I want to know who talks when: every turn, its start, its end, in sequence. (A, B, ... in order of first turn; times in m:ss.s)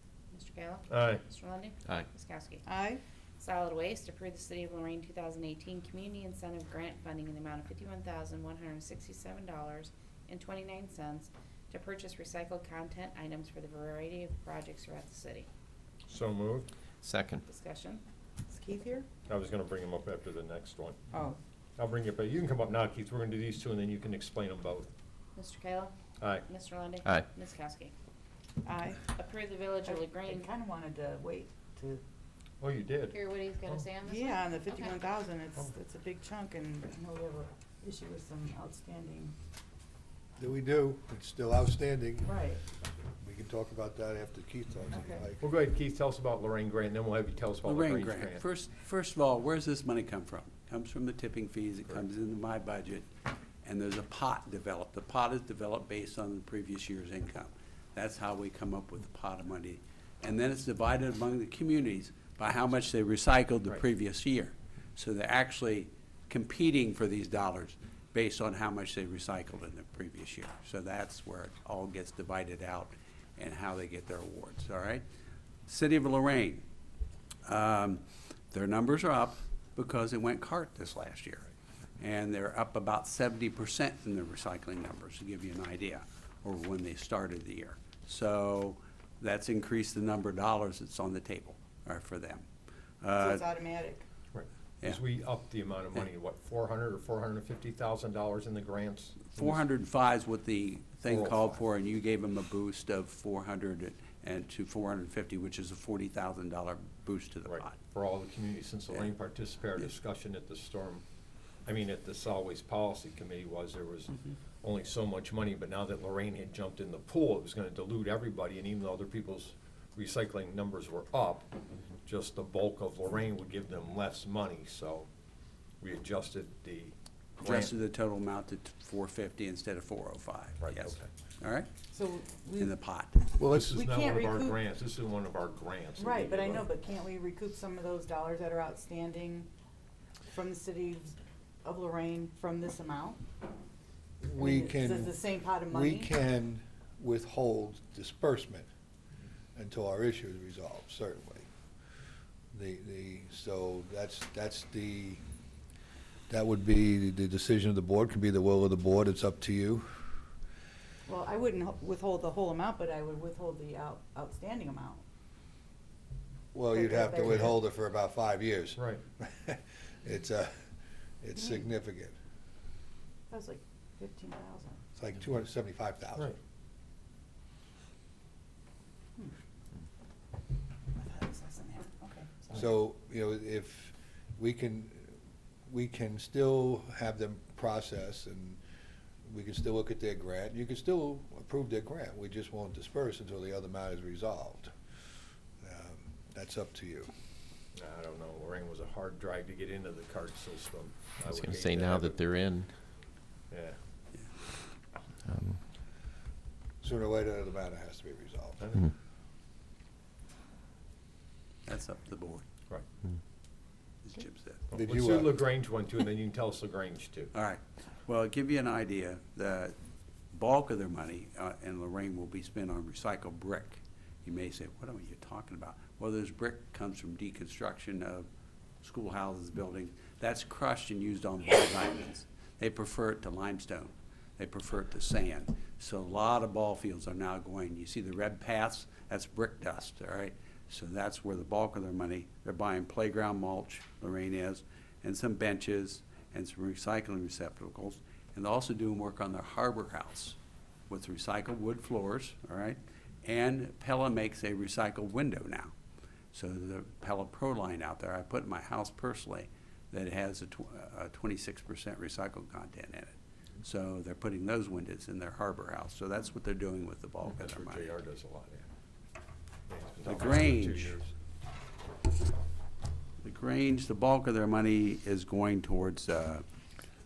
0:00.3-0:02.7 A
0:00.9-0:01.2 B
0:02.6-0:03.0 C
0:03.4-0:15.5 A
0:16.0-0:16.7 B
0:17.0-0:17.4 D
0:17.4-0:18.0 A
0:18.5-0:19.1 C
0:19.3-0:21.0 B
0:21.1-0:21.4 C
0:21.8-0:24.9 B
0:25.3-0:27.9 A
0:26.2-0:26.4 B
0:28.6-0:29.0 C
0:29.0-0:30.5 A
0:29.9-0:32.0 C
0:32.6-0:33.9 B
0:33.1-0:35.0 A
0:34.0-0:39.3 C
0:40.4-0:42.4 E
0:42.2-0:42.6 C
0:43.2-0:45.4 E
0:44.9-0:45.2 C
0:45.4-0:48.4 B
0:47.6-0:53.1 F
0:53.6-1:15.0 F
1:15.6-1:16.6 F
1:17.4-1:32.5 F
1:33.0-1:33.4 F
1:33.2-1:34.0 C
1:34.3-1:39.6 B
1:39.3-1:47.8 F
1:41.0-1:41.6 B
1:47.4-1:51.0 B
1:51.6-2:01.5 B
2:02.0-2:05.1 B
2:05.8-2:07.8 B
2:07.4-2:11.7 F
2:10.6-2:11.1 B
2:11.9-2:12.7 C
2:12.6-2:13.3 F
2:13.4-2:13.8 E
2:13.4-2:16.7 B
2:13.5-2:14.6 C
2:16.0-2:19.5 C
2:20.3-2:23.2 C
2:24.2-2:28.7 E
2:24.4-2:26.1 C
2:29.5-2:31.5 E
2:32.5-2:35.2 E
2:36.3-2:40.0 E
2:41.1-2:45.0 C
2:46.5-2:50.6 E
2:46.7-2:47.5 C
2:47.2-2:47.5 B
2:48.8-2:49.0 B
2:51.2-2:52.1 E
2:51.4-2:51.6 C
2:53.3-2:54.8 C
2:55.0-2:56.3 E
3:01.4-3:02.3 A
3:02.5-3:05.1 E
3:05.7-3:08.6 E
3:09.2-3:14.7 E
3:15.6-3:17.1 E
3:17.7-3:22.2 B
3:21.2-3:22.7 D
3:23.5-3:23.8 B
3:25.2-3:25.6 D
3:26.8-3:28.6 E
3:28.6-3:28.9 B
3:31.6-3:32.4 F
3:34.0-3:34.6 F
3:34.7-3:37.3 B
3:34.7-3:35.4 E
3:37.3-3:39.8 F
3:40.3-3:48.2 F
3:48.8-4:10.4 F
4:10.9-4:15.7 F
4:16.3-4:27.9 F
4:27.2-4:28.6 B
4:29.7-4:31.1 B
4:30.0-4:30.9 F
4:33.2-4:36.4 F